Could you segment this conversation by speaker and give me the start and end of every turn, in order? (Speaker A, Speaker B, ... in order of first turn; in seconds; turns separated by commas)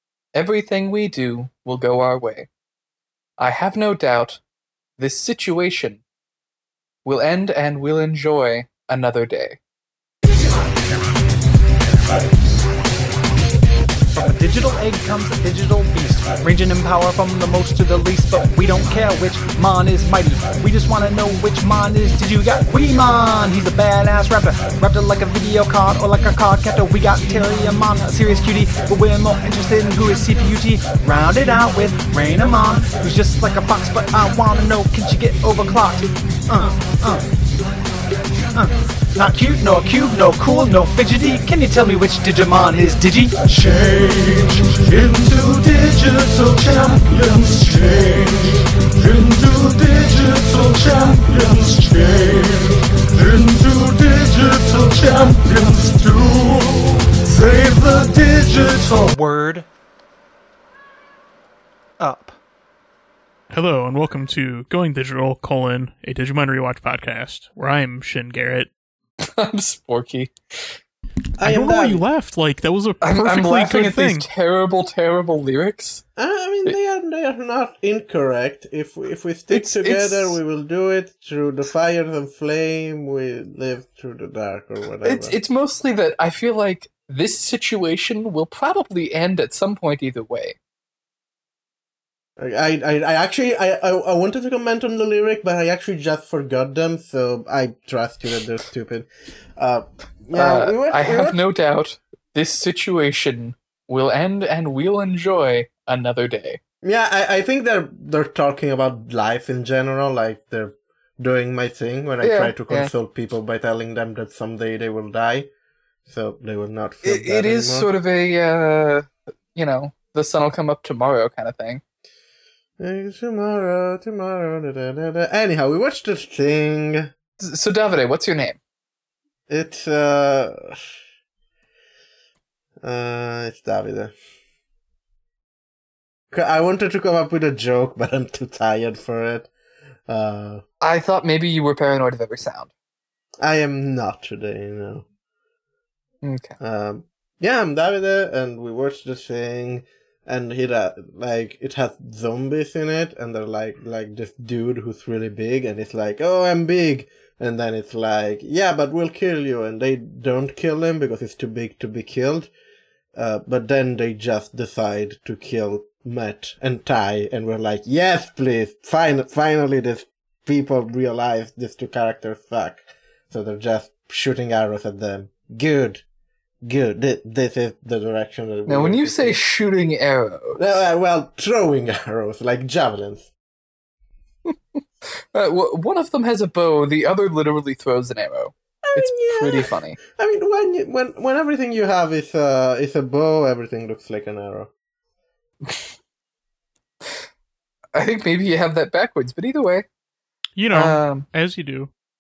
Speaker A: 0.3-2.5, Speaker A: 3.4-4.4, Speaker A: 5.0-6.0, Speaker A: 7.0-9.6, Speaker B: 14.2-37.2, Speaker B: 38.5-43.4, Speaker C: 43.4-59.1, Speaker B: 59.1-59.6, Speaker B: 62.0-62.4, Speaker D: 63.5-68.7, Speaker A: 69.2-70.8, Speaker E: 71.4-72.0, Speaker D: 71.4-74.3, Speaker A: 73.0-76.0, Speaker E: 76.2-85.4, Speaker A: 79.5-80.4, Speaker A: 85.0-90.6, Speaker E: 92.4-101.4, Speaker A: 100.3-106.6, Speaker E: 106.8-115.5, Speaker A: 112.2-112.9, Speaker E: 116.1-117.9, Speaker A: 117.0-121.8, Speaker E: 122.8-127.1, Speaker A: 127.4-128.6, Speaker E: 129.5-130.8, Speaker E: 132.8-134.1, Speaker E: 136.3-139.5, Speaker E: 140.1-140.6, Speaker A: 140.8-142.7, Speaker E: 143.4-145.1, Speaker A: 146.2-146.6, Speaker E: 146.6-162.5, Speaker E: 163.1-176.0, Speaker E: 176.6-179.4, Speaker A: 178.7-180.8, Speaker E: 180.6-183.3, Speaker A: 184.5-190.0, Speaker E: 188.9-194.7, Speaker A: 197.9-199.9, Speaker D: 200.6-201.9, Speaker A: 200.7-201.3